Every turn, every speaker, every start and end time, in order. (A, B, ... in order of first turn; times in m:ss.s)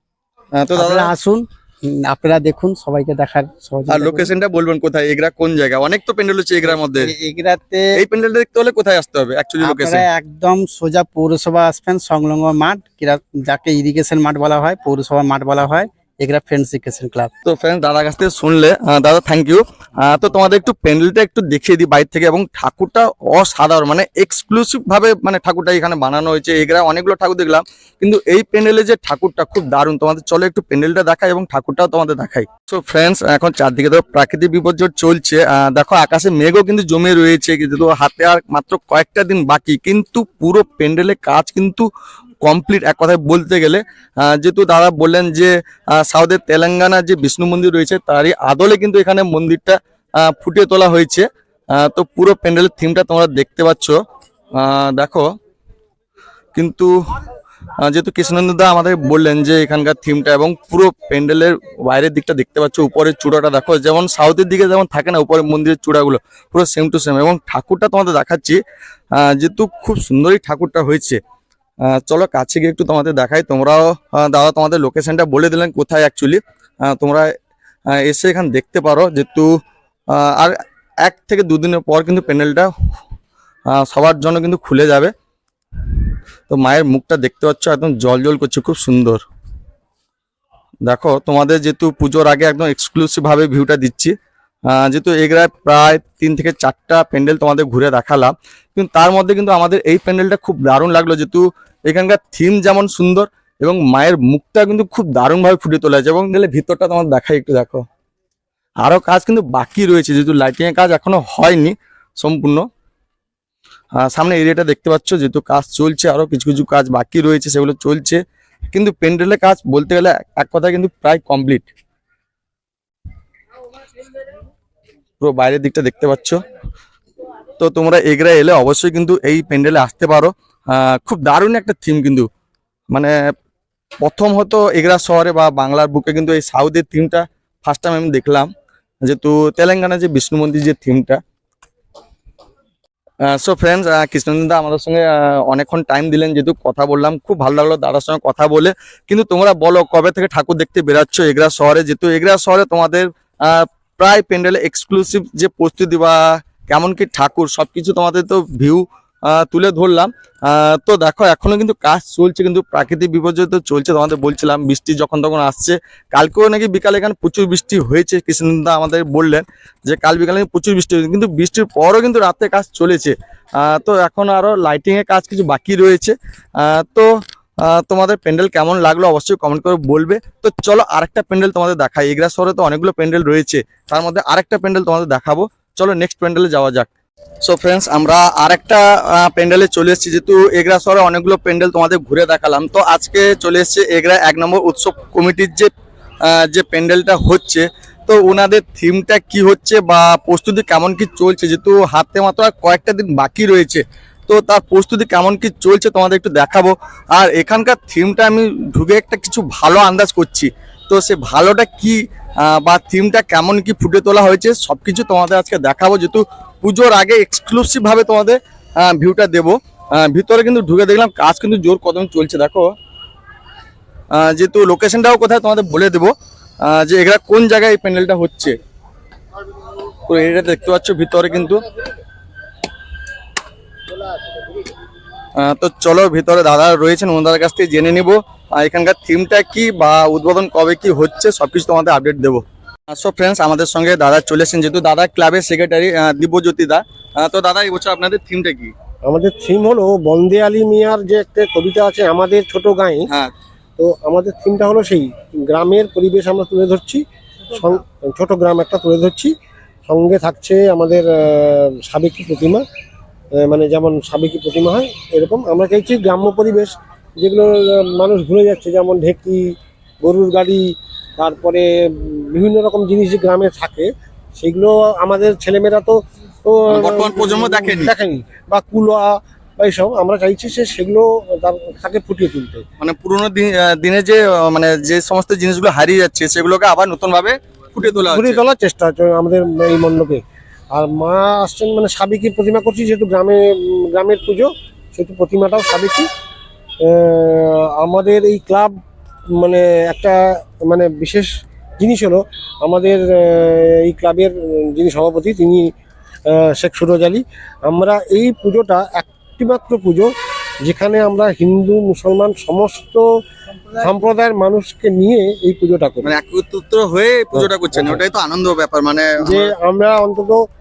0:00.6-0:01.1 A
0:00.7-0:04.3 B
0:03.9-0:07.1 A
0:06.6-0:07.9 B
0:08.0-0:10.1 A
0:09.6-0:17.3 B
0:17.4-0:41.9 A
0:42.4-0:54.0 A
0:54.5-0:55.3 A
0:56.5-0:56.9 A
0:57.8-1:08.6 A
1:09.1-1:11.2 A
1:11.8-1:17.3 A
1:17.9-1:19.6 A
1:20.1-1:22.7 A
1:23.7-1:25.1 A
1:26.5-1:29.2 A
1:30.8-1:34.1 A
1:34.7-1:47.8 A
1:48.8-1:52.6 A
1:53.9-2:01.7 A
2:05.2-2:06.4 A
2:07.6-2:12.3 A
2:12.9-2:13.3 A
2:14.0-2:18.5 A
2:19.0-2:21.2 A
2:23.2-3:06.9 A
3:07.4-3:15.7 A
3:16.2-3:42.7 A
3:44.1-3:48.6 A
3:50.1-3:51.7 A
3:55.4-4:08.7 A
4:09.0-4:13.1 C
4:13.8-4:19.3 C
4:19.9-4:22.6 C
4:23.4-4:42.6 C
4:36.7-4:37.9 A
4:42.8-4:48.4 A
4:48.0-4:50.2 C
4:50.7-4:56.1 C
4:56.8-4:58.8 C
4:59.3-5:05.7 C
5:06.3-5:13.1 C
5:13.7-5:16.1 C
5:16.0-5:19.5 A
5:17.4-5:18.0 C
5:19.2-5:20.4 C